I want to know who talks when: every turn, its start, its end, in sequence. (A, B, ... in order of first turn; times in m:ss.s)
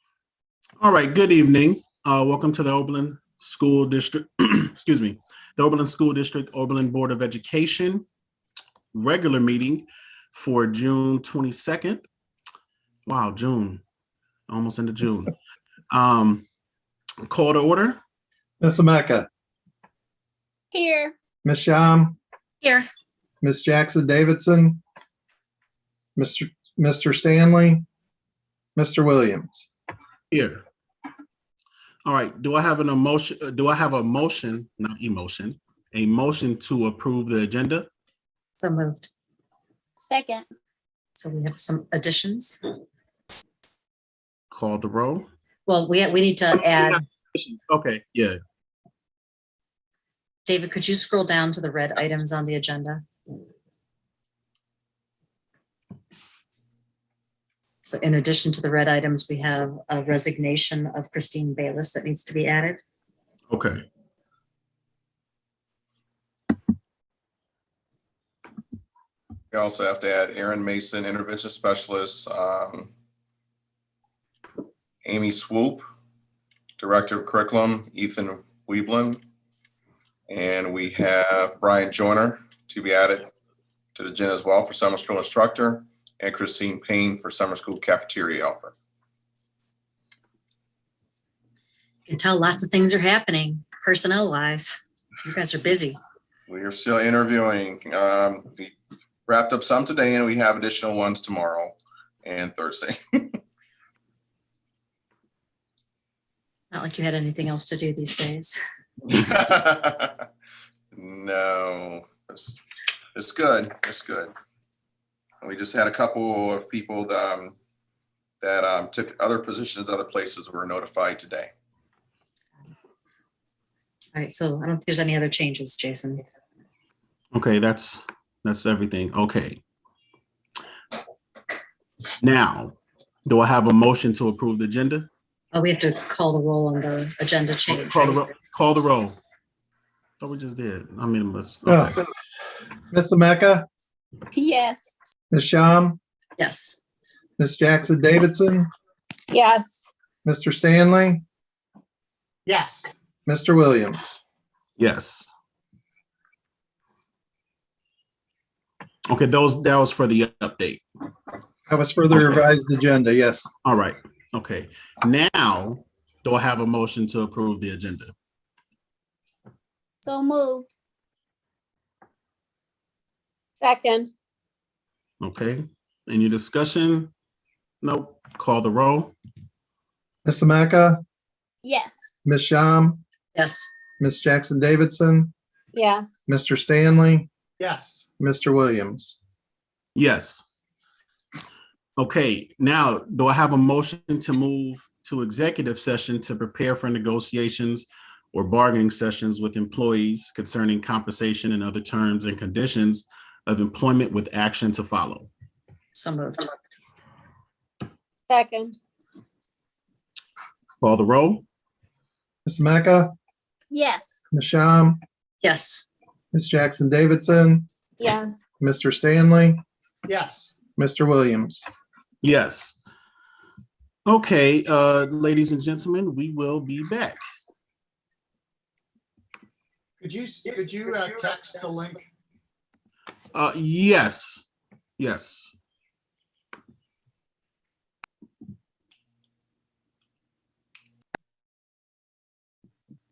0:00.8-0:08.0 A
0:08.9-0:12.0 A
0:13.0-0:13.8 A
0:14.5-0:15.3 A
0:15.9-0:16.4 A
0:17.2-0:18.0 A
0:18.6-0:19.3 B
0:20.7-0:21.1 C
0:21.4-0:22.2 B
0:23.4-0:24.8 B
0:26.2-0:27.8 B
0:28.8-0:29.7 B
0:30.3-0:30.6 A
0:32.0-0:37.9 A
0:38.6-0:39.1 D
0:40.0-0:40.4 C
0:41.1-0:42.6 D
0:44.5-0:45.3 A
0:45.6-0:47.0 D
0:46.7-0:48.4 A
0:50.4-0:53.0 D
0:57.8-1:02.8 D
1:03.5-1:03.8 A
1:09.5-1:12.9 E
1:15.0-1:15.8 E
1:16.8-1:19.2 E
1:20.3-1:23.3 E
1:23.9-1:28.7 E
1:32.0-1:36.0 D
1:36.5-1:38.7 E
1:39.3-1:43.4 E
1:46.7-1:48.6 D
1:49.1-1:50.2 E
1:50.9-1:52.6 E
1:53.1-1:54.3 E
1:55.4-1:57.6 E
1:58.4-2:01.5 E
2:04.1-2:06.2 D
2:07.3-2:09.6 A
2:12.2-2:15.1 A
2:15.5-2:18.2 D
2:17.7-2:19.2 A
2:20.2-2:22.0 A
2:21.7-2:22.0 B
2:22.9-2:23.7 B
2:24.3-2:24.9 C
2:25.3-2:26.0 B
2:26.4-2:26.8 D
2:27.4-2:28.7 B
2:29.3-2:29.8 C
2:30.2-2:31.2 B
2:32.4-2:32.9 F
2:33.2-2:34.1 B
2:34.8-2:35.3 A
2:39.1-2:40.8 A
2:41.7-2:43.5 B
2:43.6-2:48.1 A
2:50.0-2:50.7 C
2:53.6-2:54.1 C
2:55.2-2:57.1 A
2:57.8-2:59.1 A
3:00.2-3:01.0 B
3:01.6-3:02.1 C
3:02.2-3:03.0 B
3:03.3-3:03.7 D
3:04.0-3:05.3 B
3:05.7-3:06.1 C
3:06.3-3:07.3 B
3:07.6-3:08.1 F
3:08.2-3:09.2 B
3:09.9-3:10.4 A
3:12.0-3:25.3 A
3:25.9-3:26.5 D
3:28.3-3:28.8 C
3:30.8-3:31.4 A
3:32.4-3:33.1 B
3:33.7-3:34.2 C
3:34.3-3:35.0 B
3:35.4-3:35.9 D
3:36.3-3:37.7 B
3:38.0-3:38.4 C
3:38.6-3:39.6 B
3:40.0-3:40.5 F
3:40.8-3:41.7 B
3:42.2-3:42.8 A
3:44.0-3:47.2 A
3:50.0-3:52.0 F
3:53.3-3:54.4 A
3:55.0-3:55.5 A